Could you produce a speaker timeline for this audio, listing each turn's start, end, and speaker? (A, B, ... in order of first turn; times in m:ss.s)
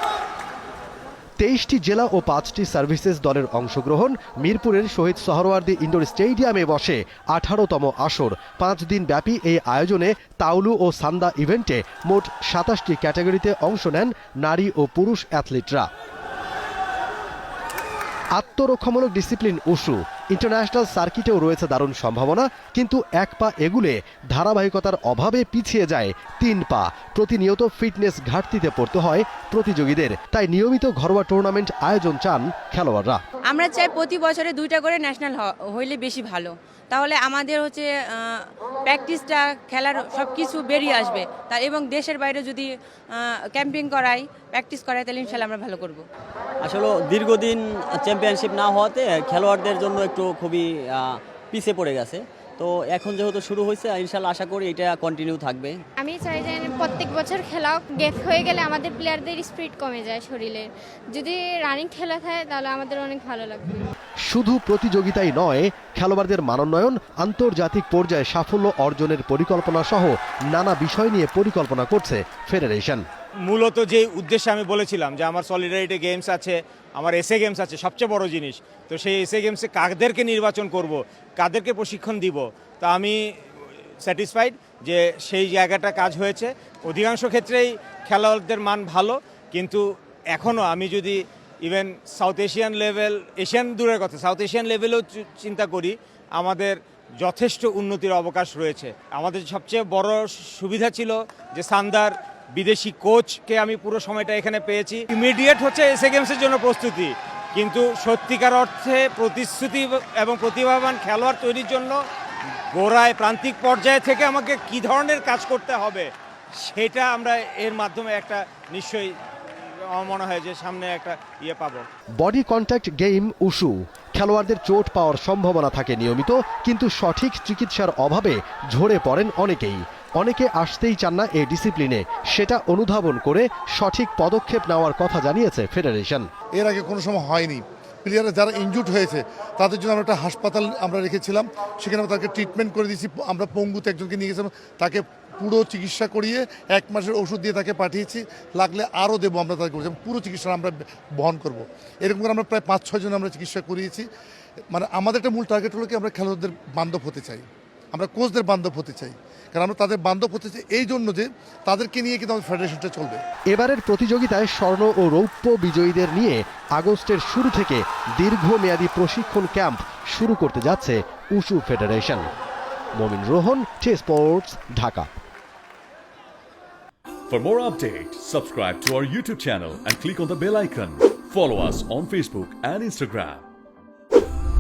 0:01.4-0:15.9 A
0:18.4-0:33.2 A
0:33.5-0:46.0 B
0:46.6-0:55.8 C
0:56.0-1:03.9 D
1:04.3-1:13.0 A
1:13.5-1:23.4 E
1:24.0-1:52.0 E
1:52.7-1:56.1 E
1:56.6-1:59.1 E
1:59.9-2:01.9 E
2:02.2-2:16.3 A
2:16.6-2:34.0 F
2:34.7-2:43.2 F
2:43.5-2:52.3 A
2:53.0-2:55.1 A
2:57.3-3:03.5 G